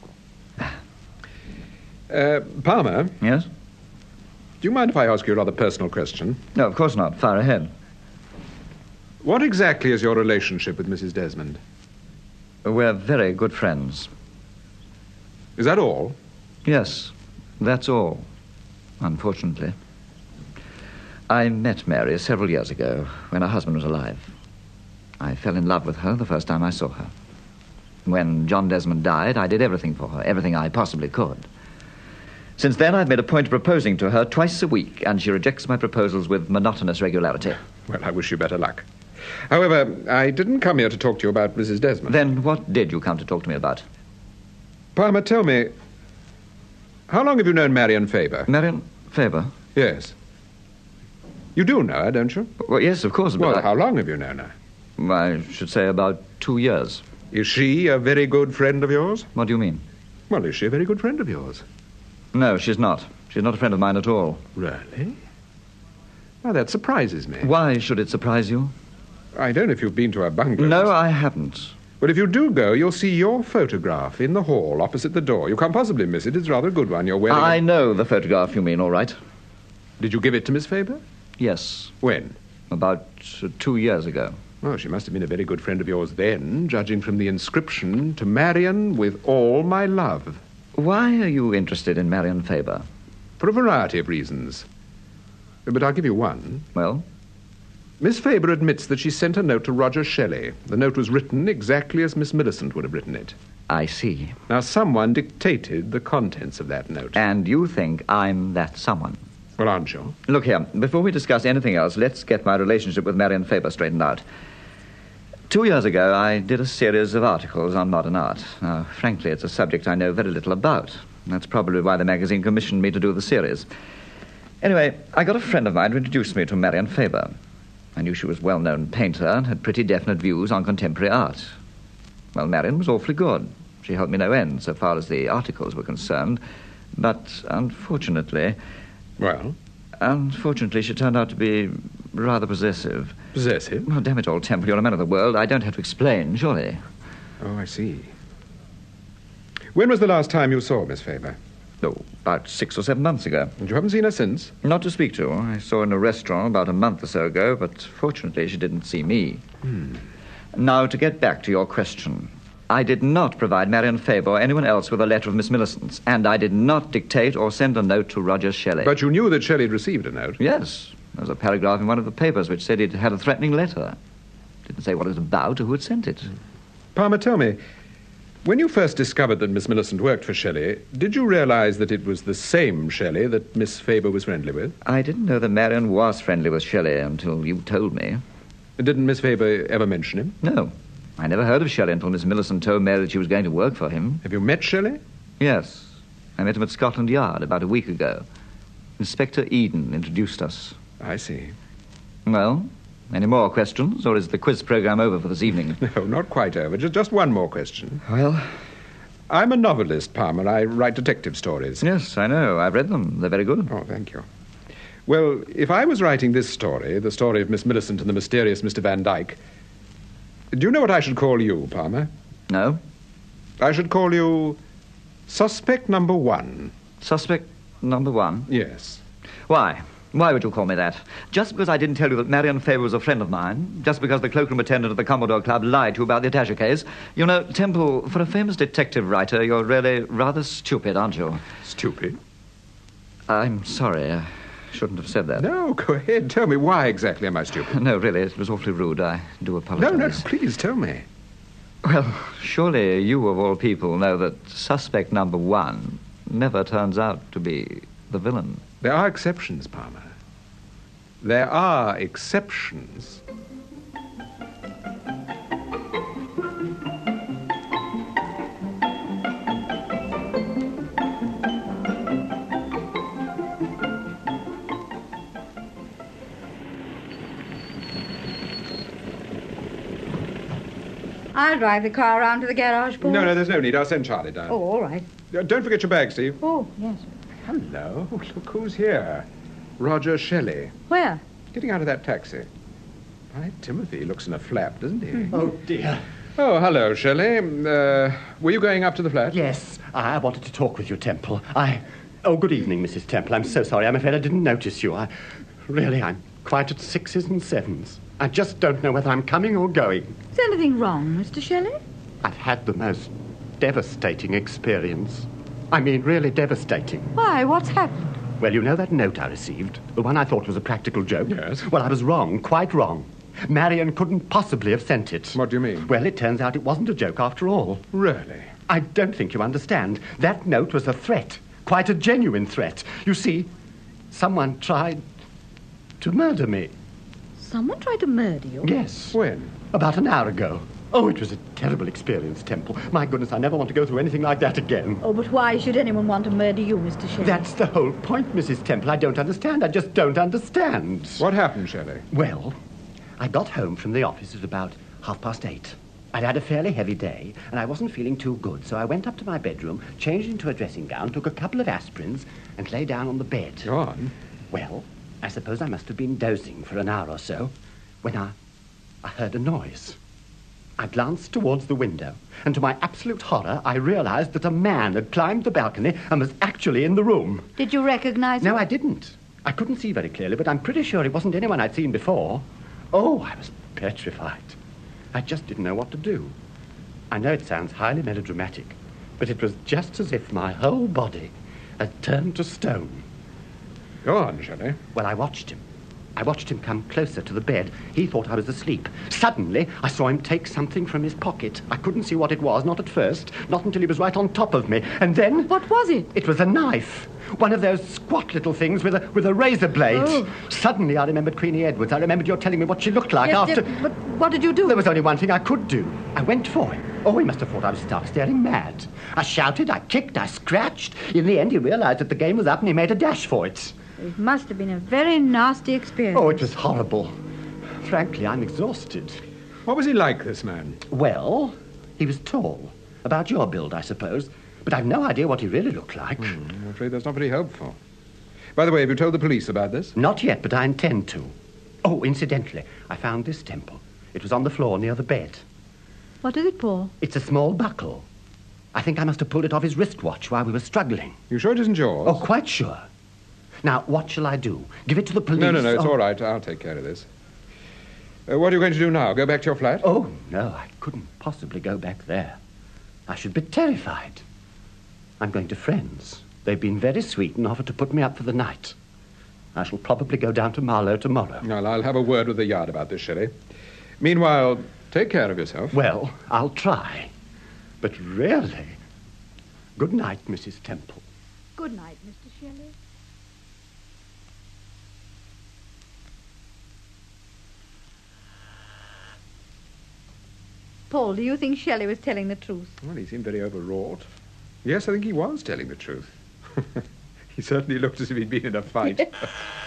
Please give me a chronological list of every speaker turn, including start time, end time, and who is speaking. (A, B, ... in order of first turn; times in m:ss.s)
0:02.1-0:03.2 A
0:03.2-0:03.5 B
0:04.6-0:06.4 A
0:06.5-0:07.7 B
0:09.2-0:11.6 A
0:12.6-0:14.1 B
0:15.6-0:16.2 A
0:16.6-0:18.2 B
0:19.0-0:19.8 B
0:21.3-0:24.3 B
0:25.2-0:27.1 B
0:28.0-0:31.4 B
0:32.6-0:37.6 B
0:37.9-0:38.8 A
0:39.5-0:42.2 A
0:42.1-0:43.8 B
0:45.0-0:45.7 A
0:47.1-0:48.5 A
0:48.5-0:49.5 B
0:49.7-0:50.1 A
0:51.6-0:52.5 A
0:52.6-0:53.6 B
0:53.4-0:54.5 A
0:55.0-0:57.0 B
0:57.3-0:59.3 A
0:59.3-0:59.8 B
1:00.3-1:01.6 A
1:02.3-1:04.4 B
1:04.6-1:05.2 A
1:06.4-1:07.5 A
1:07.4-1:08.7 B
1:09.3-1:10.9 A
1:10.6-1:11.7 B
1:12.0-1:17.6 A
1:17.3-1:19.2 B
1:20.0-1:21.0 A
1:21.4-1:21.9 B
1:22.0-1:22.4 A
1:22.7-1:24.4 B
1:24.6-1:30.4 A
1:30.7-1:32.8 B
1:33.4-1:34.6 A
1:35.6-1:36.7 A
1:36.7-1:37.0 B
1:38.0-1:43.4 A
1:43.7-1:44.4 B
1:44.5-1:47.2 A
1:47.1-1:49.2 B
1:49.6-1:50.2 A
1:50.3-1:54.2 B
1:55.5-2:03.7 B
2:04.6-2:07.4 B
2:08.0-2:11.5 B
2:12.3-2:16.4 B
2:16.9-2:18.6 B
2:19.2-2:19.6 A
2:20.0-2:23.2 B
2:23.3-2:23.9 A
2:23.9-2:26.8 B
2:27.4-2:28.1 A
2:29.7-2:31.4 A
2:31.8-2:33.5 B
2:33.6-2:34.5 A
2:34.6-2:39.4 B
2:40.5-2:48.9 B
2:48.8-2:50.4 A
2:50.4-2:54.0 B
2:54.6-2:56.3 B
2:56.9-2:57.6 A
2:58.4-3:04.8 A
3:04.8-3:08.2 B
3:08.8-3:10.4 A
3:10.4-3:14.2 B
3:14.2-3:15.0 A
3:15.4-3:18.2 B
3:19.0-3:20.8 B
3:21.0-3:21.5 A
3:22.2-3:25.8 B
3:25.8-3:28.0 A
3:28.1-3:28.5 B
3:29.3-3:31.8 A
3:31.8-3:33.7 B
3:33.7-3:34.2 A
3:35.0-3:39.4 A
3:40.5-3:42.1 A
3:42.5-3:42.8 B
3:43.6-3:44.6 A
3:45.3-3:46.7 A
3:47.0-3:48.5 B
3:48.5-3:49.0 A
3:49.5-4:01.4 B
4:01.6-4:02.2 A
4:03.3-4:05.4 B
4:05.4-4:07.8 A
4:07.7-4:10.2 B
4:09.8-4:11.0 A
4:11.8-4:18.6 B
4:18.8-4:20.1 A
4:21.2-4:23.2 A
4:41.3-4:43.4 C
4:43.0-4:44.6 A
4:44.5-4:45.0 C
4:45.3-4:46.4 A
4:46.4-4:47.0 C
4:47.4-4:49.3 A
4:49.8-4:50.7 A
4:50.9-4:51.2 C
4:51.5-4:52.5 A
4:53.3-4:55.4 A
4:55.3-4:56.0 D
4:56.4-4:59.4 A
4:59.3-5:05.1 D
5:05.6-5:10.1 D
5:10.3-5:11.8 C
5:12.2-5:17.1 D
5:17.2-5:18.2 C
5:18.4-5:27.8 D
5:21.3-5:21.6 A
5:25.4-5:25.9 A
5:27.9-5:28.5 A
5:28.7-5:33.5 D
5:34.1-5:35.0 D
5:36.0-5:36.7 D
5:37.4-5:38.7 C
5:38.6-5:39.2 D
5:39.1-5:39.5 A
5:39.7-5:45.0 D
5:45.0-5:47.5 C
5:47.2-5:51.2 D
5:51.2-5:52.1 A
5:52.1-5:52.5 D
5:53.2-6:03.7 D
6:03.6-6:04.1 A
6:04.5-6:08.3 D
6:09.0-6:10.0 D
6:10.8-6:17.5 D
6:17.6-6:18.6 C
6:18.4-6:24.6 D
6:25.1-6:26.3 D
6:27.1-6:33.0 D
6:34.0-6:34.8 A
6:34.9-6:35.6 D
6:36.2-6:45.6 D
6:45.5-6:46.1 C
6:46.1-6:53.8 D
6:49.9-6:50.4 C
6:53.2-6:54.9 C
6:54.6-7:03.7 D
7:04.0-7:06.4 C
7:06.1-7:07.1 D
7:07.8-7:09.2 D
7:09.6-7:10.8 A
7:10.9-7:16.4 D
7:16.2-7:17.8 A
7:18.5-7:20.0 A
7:20.0-7:21.3 D
7:21.8-7:25.4 D
7:26.2-7:26.9 C
7:27.0-7:28.0 D
7:28.7-7:31.2 D
7:31.3-7:32.2 A
7:32.0-7:32.8 D
7:33.6-7:35.9 D
7:35.4-7:37.0 A
7:38.3-7:39.9 A
7:39.8-7:42.4 D
7:43.1-7:44.2 D
7:45.2-7:48.7 D
7:49.5-7:51.4 D
7:51.4-7:53.3 A
7:54.0-7:55.8 A
7:55.7-7:57.1 D
7:57.8-7:58.8 D
7:59.8-8:01.0 D
8:01.6-8:02.7 C
8:10.9-8:12.7 C
8:12.8-8:14.0 A
8:14.6-8:16.8 A
8:17.4-8:19.4 A